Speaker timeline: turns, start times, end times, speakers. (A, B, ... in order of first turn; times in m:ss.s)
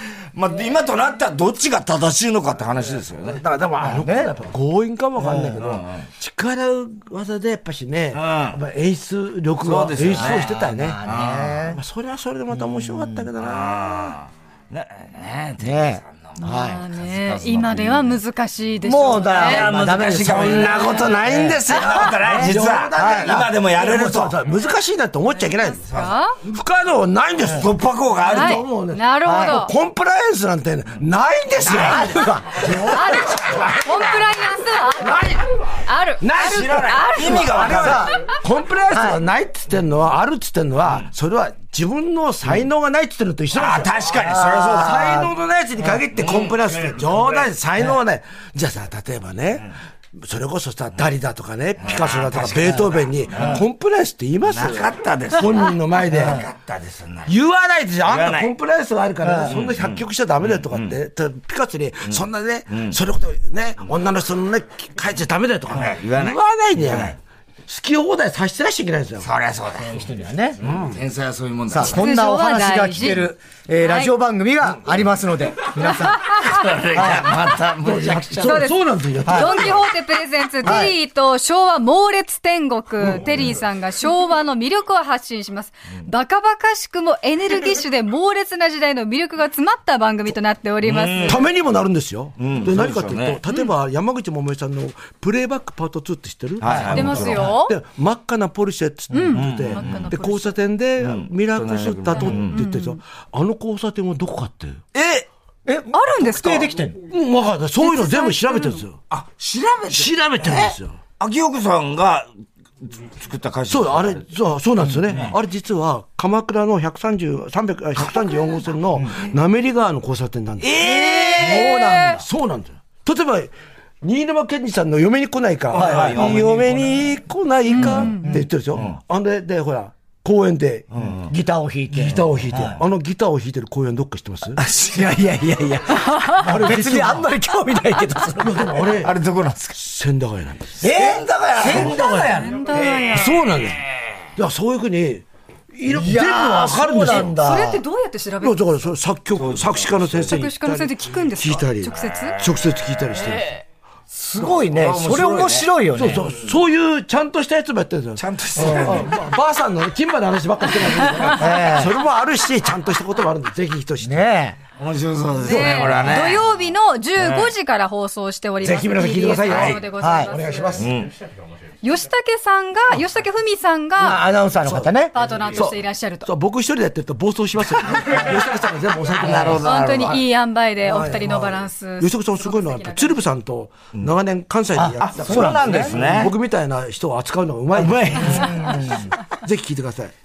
0:00.3-0:03.4 A
0:03.3-0:11.0 B
0:03.8-0:04.3 C
0:05.3-0:06.1 A
0:05.3-0:05.5 C
0:08.1-0:08.6 A
0:09.6-0:11.6 A
0:10.3-0:11.8 C
0:11.6-0:14.1 B
0:12.5-0:13.3 C
0:13.4-0:18.2 A
0:15.6-0:16.9 C
0:16.4-0:19.7 D
0:18.8-0:21.9 C
0:19.3-0:24.4 A
0:19.7-0:34.2 B
0:20.8-0:21.1 D
0:23.0-0:23.4 C
0:25.4-0:26.4 D
0:27.4-0:28.7 A
0:28.3-0:29.7 D
0:29.2-0:29.6 C
0:31.7-0:32.2 A
0:31.7-0:33.2 C
0:32.8-0:37.8 D
0:33.2-0:33.6 A
0:35.0-0:44.1 B
0:36.3-0:38.1 A
0:37.6-0:38.2 C
0:38.9-0:39.2 C
0:43.5-0:45.3 A
0:44.1-0:45.3 C
0:44.7-0:56.4 B
0:46.1-0:47.5 A
0:51.8-0:53.7 A
0:54.4-0:57.3 A
0:57.3-1:09.3 B
0:58.0-0:58.5 A
0:59.2-0:59.5 C
0:59.4-1:01.0 A
1:02.1-1:03.0 A
1:05.7-1:07.2 A
1:09.2-1:10.0 A
1:09.8-1:10.6 C
1:10.6-1:11.0 B
1:10.7-1:12.0 A
1:11.7-1:17.4 C
1:11.8-1:13.3 D
1:13.8-1:14.1 D
1:16.0-1:16.7 D
1:16.4-1:18.7 A
1:17.6-1:19.9 B
1:18.4-1:31.5 D
1:19.2-1:19.6 C
1:20.6-1:21.0 C
1:30.8-1:31.4 A
1:31.3-1:44.8 B
1:32.4-1:33.4 A
1:36.6-1:37.6 A
1:36.7-1:36.9 C
1:36.9-1:37.8 D
1:39.1-1:40.6 D
1:39.3-1:40.1 A
1:41.0-1:42.6 A
1:42.2-1:43.0 D
1:45.0-1:45.3 A
1:45.6-1:47.0 C
1:45.9-1:46.7 D
1:47.1-1:49.0 B
1:47.8-1:48.8 D
1:49.1-1:52.3 A
1:49.9-1:51.0 B
1:52.8-1:54.2 A
1:53.7-2:10.9 B
1:55.1-1:55.3 A
2:00.6-2:02.0 A
2:00.8-2:02.2 D
2:05.7-2:06.9 A
2:05.8-2:06.5 C
2:07.7-2:08.4 D
2:07.8-2:08.5 C
2:10.9-2:11.3 A
2:11.0-2:12.8 C
2:11.9-2:14.6 B
2:14.6-2:18.9 C
2:16.0-2:16.4 D
2:16.4-2:17.3 B
2:18.4-2:19.1 B
2:19.0-2:19.8 A
2:19.7-2:20.9 B
2:20.8-2:22.6 C
2:20.8-2:23.7 A
2:21.6-2:22.4 B
2:22.1-2:23.4 D
2:23.1-2:23.8 B
2:24.4-2:27.4 B
2:25.9-2:27.8 C
2:27.1-2:28.6 D
2:28.4-2:33.6 B
2:29.4-2:30.4 A
2:30.3-2:32.4 D
2:34.1-2:36.3 C
2:34.4-2:36.6 A
2:36.0-2:44.3 B
2:38.2-2:39.2 A
2:38.6-2:39.1 C
2:41.3-2:42.0 C
2:44.0-2:44.6 C
2:44.8-2:46.4 A
2:45.4-2:50.8 D
2:47.2-2:47.5 A
2:48.6-2:50.9 B
2:49.2-2:49.9 A
2:50.0-2:50.4 C
2:50.8-2:51.2 A
2:51.8-2:54.2 D
2:54.0-2:55.3 C
2:54.6-2:54.9 B
2:55.1-2:56.3 D
2:55.5-3:00.2 B
2:59.2-3:00.2 A
2:59.6-3:03.2 D
3:00.8-3:10.1 B
3:04.8-3:06.2 C
3:05.0-3:06.4 A
3:07.7-3:08.7 A
3:08.2-3:09.1 C